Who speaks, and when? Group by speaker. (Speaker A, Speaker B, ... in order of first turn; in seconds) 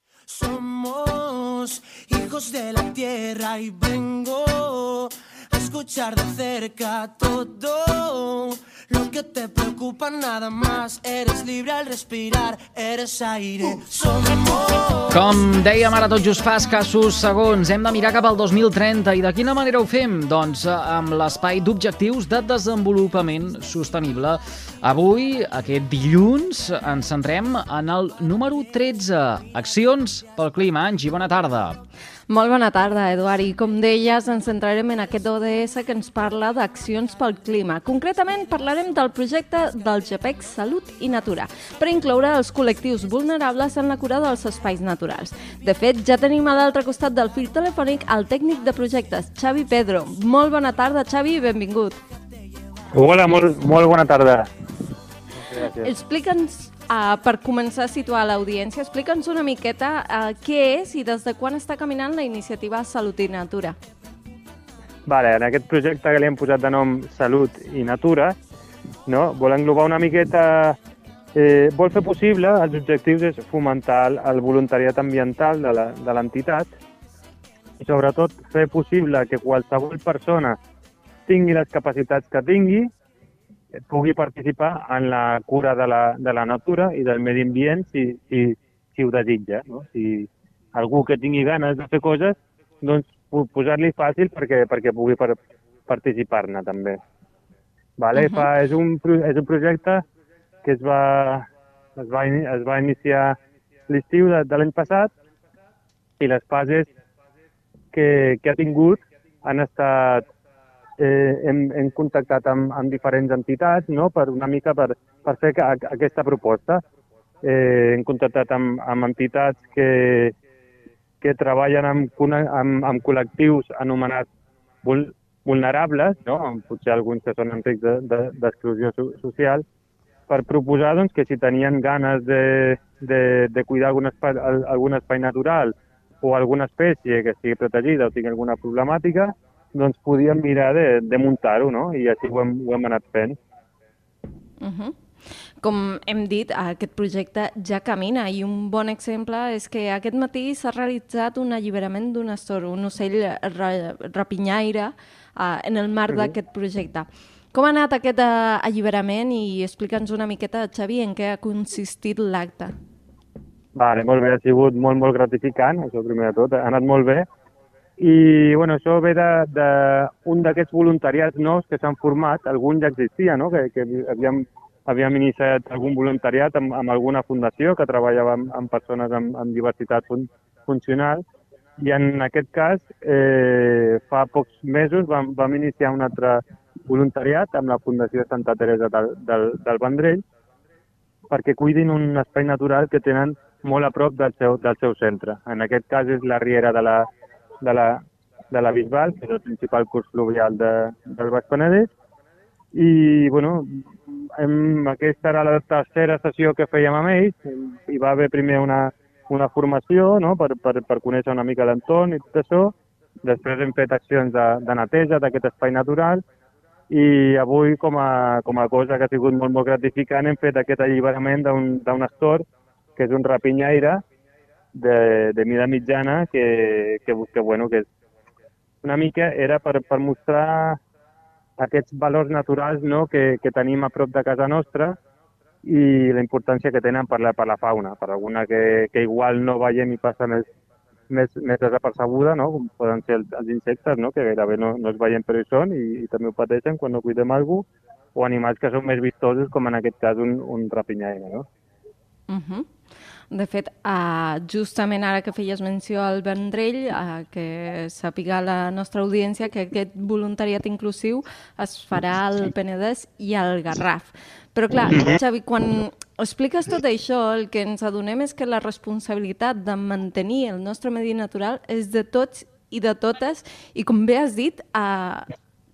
Speaker A: 0.3-15.2
Speaker B: 15.1-31.8
Speaker C: 32.3-52.0, 55.8-63.8, 98.2-98.5, 144.6-144.9, 145.6-162.7, 252.3-252.7, 253.3-275.2
Speaker D: 52.9-54.5, 55.5-55.9, 65.1-68.4, 69.1-70.8, 71.3-76.7, 77.8-80.6, 81.3-82.9, 83.9-95.4, 95.9-97.0, 98.0-100.0, 100.6-101.5, 102.0-103.4, 103.9-105.1, 106.2-106.9, 107.9-110.2, 111.0-116.8, 117.4-120.3, 121.2-124.3, 124.8-129.7, 130.3-143.4, 163.8-167.3, 168.0-181.2, 181.8-190.2, 191.3-197.1, 197.6-198.0, 198.5-201.9, 202.7-216.2, 216.9-222.4, 223.0-224.0, 224.7-227.9, 228.8-230.8, 231.6-235.0, 235.6-240.5, 241.1-251.5, 264.9-265.2